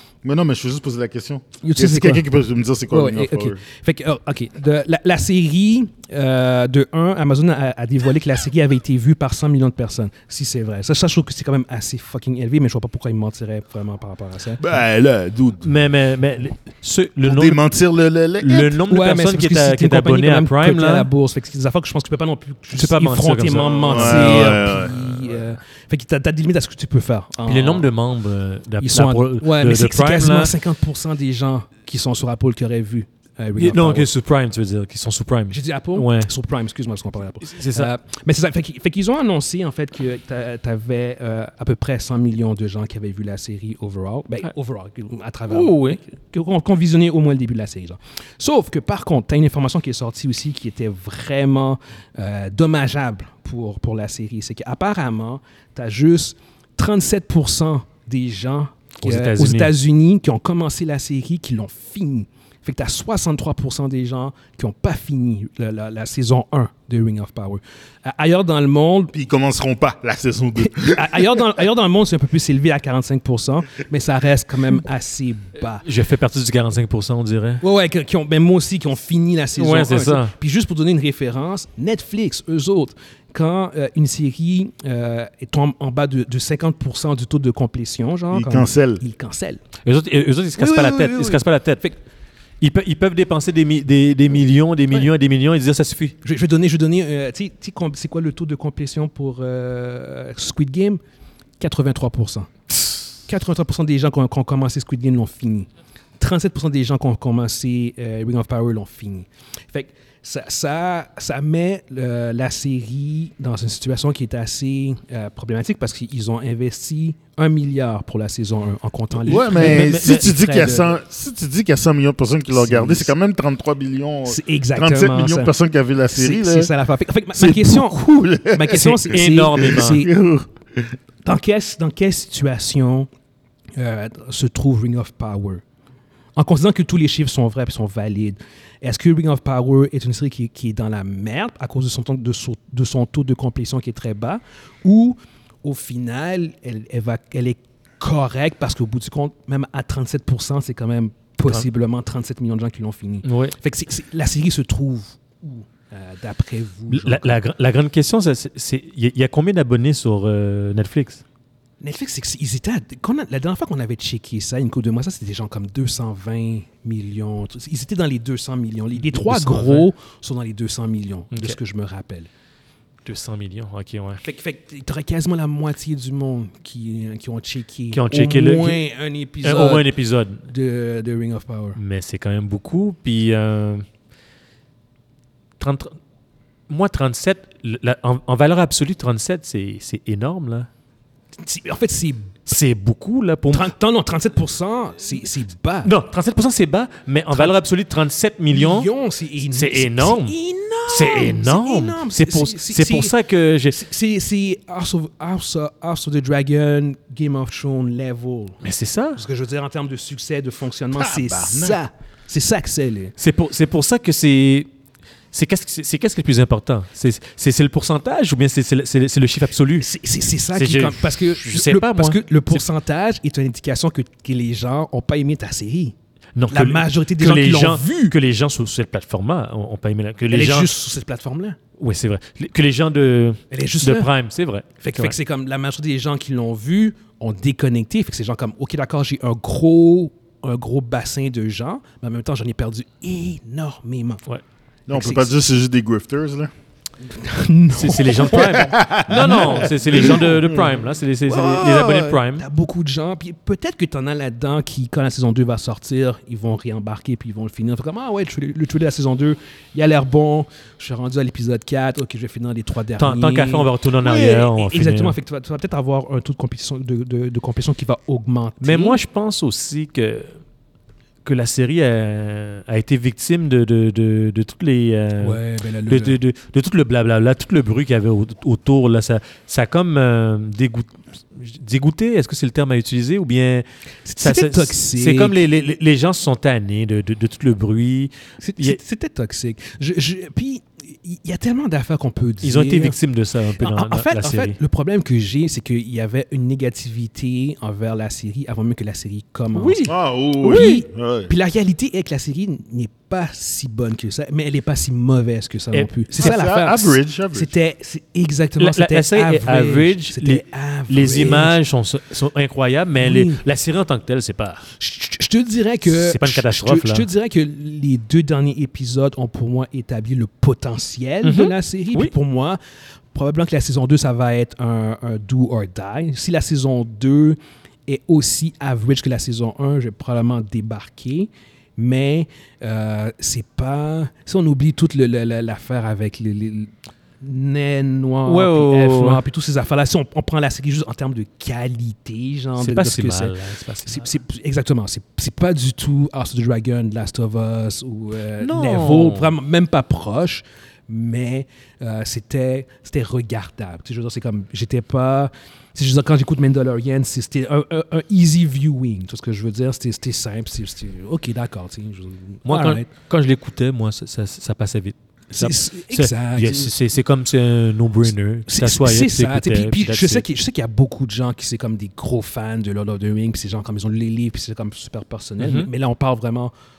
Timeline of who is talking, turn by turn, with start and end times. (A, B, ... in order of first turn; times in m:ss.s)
0:00.2-0:03.6 A
0:01.6-0:02.2 B
0:02.9-0:14.7 B
0:14.6-0:15.8 A
0:15.6-0:17.6 C
0:17.2-0:18.7 A
0:18.4-0:21.1 C
0:18.9-0:27.9 B
0:22.7-0:24.6 C
0:23.8-0:25.4 A
0:27.4-0:30.5 C
0:28.8-0:34.1 B
0:33.6-0:36.3 C
0:35.5-1:09.1 B
0:37.4-0:37.9 C
0:45.5-0:46.0 C
0:59.0-0:59.7 C
1:09.1-1:11.4 A
1:10.6-1:15.8 B
1:15.8-1:17.6 C
1:17.6-1:29.6 B
1:19.6-1:20.3 C
1:28.3-1:29.0 A
1:29.8-1:31.8 C
1:30.6-1:32.0 B
1:32.6-1:36.2 C
1:36.2-1:41.0 B
1:41.6-1:42.5 B
1:43.3-2:01.0 B
1:59.2-2:00.6 C
1:59.3-2:06.7 A
2:02.5-2:03.1 B
2:04.2-2:05.5 B
2:06.1-2:10.1 B
2:07.3-2:11.0 A
2:08.7-2:10.0 C
2:11.2-2:13.1 B
2:13.8-2:15.6 B
2:16.4-2:37.4 B
2:33.2-2:33.5 C
2:36.9-2:41.2 C
2:41.8-2:52.3 B
2:49.0-2:49.9 C
2:51.3-2:51.6 C
2:53.0-2:54.2 C
2:54.2-2:59.9 B
2:57.9-2:58.8 C
2:59.4-3:00.4 C
3:00.4-3:01.8 B
3:01.8-3:03.8 C
3:05.6-3:06.0 C
3:06.7-3:10.7 C
3:11.4-3:12.4 B
3:12.5-3:13.7 C
3:13.5-3:15.9 B
3:15.8-3:18.9 C
3:18.5-3:23.1 B
3:19.4-3:20.3 C
3:20.9-3:23.8 C
3:23.7-3:28.6 B
3:28.6-3:29.2 C
3:29.2-3:33.1 B
3:30.9-3:31.8 A
3:33.2-3:34.7 C
3:35.3-3:39.9 C
3:39.8-3:45.9 B
3:40.5-3:42.6 C
3:46.3-3:50.7 C
3:46.5-3:48.1 B
3:50.3-3:51.6 B
3:51.8-3:55.1 C
3:53.5-3:54.1 B
3:54.8-4:04.2 B
4:04.9-4:06.5 A
4:04.9-4:05.3 B
4:07.1-4:10.6 B
4:07.7-4:12.4 C
4:08.3-4:10.7 A
4:11.2-4:29.0 B
4:23.0-4:25.2 C
4:28.6-4:30.4 C
4:31.2-4:43.6 C
4:35.2-4:36.2 B
4:44.0-4:45.4 B
4:44.2-4:48.8 C
4:48.4-4:53.0 B
4:52.4-4:54.6 C
4:53.6-4:59.9 B
4:59.5-5:00.8 C
4:59.9-5:01.3 A
5:00.4-5:11.6 B
5:05.7-5:06.4 C
5:06.2-5:07.5 A
5:08.6-5:14.6 C
5:13.0-5:13.4 B
5:14.8-5:22.6 B
5:15.8-5:17.1 C
5:21.2-5:22.1 C
5:23.1-6:02.9 B
5:38.2-5:39.2 C
5:42.6-5:44.1 C
5:48.4-5:49.3 C
6:02.5-6:10.2 C
6:05.3-6:06.7 B
6:08.5-6:16.5 B
6:15.4-6:15.7 C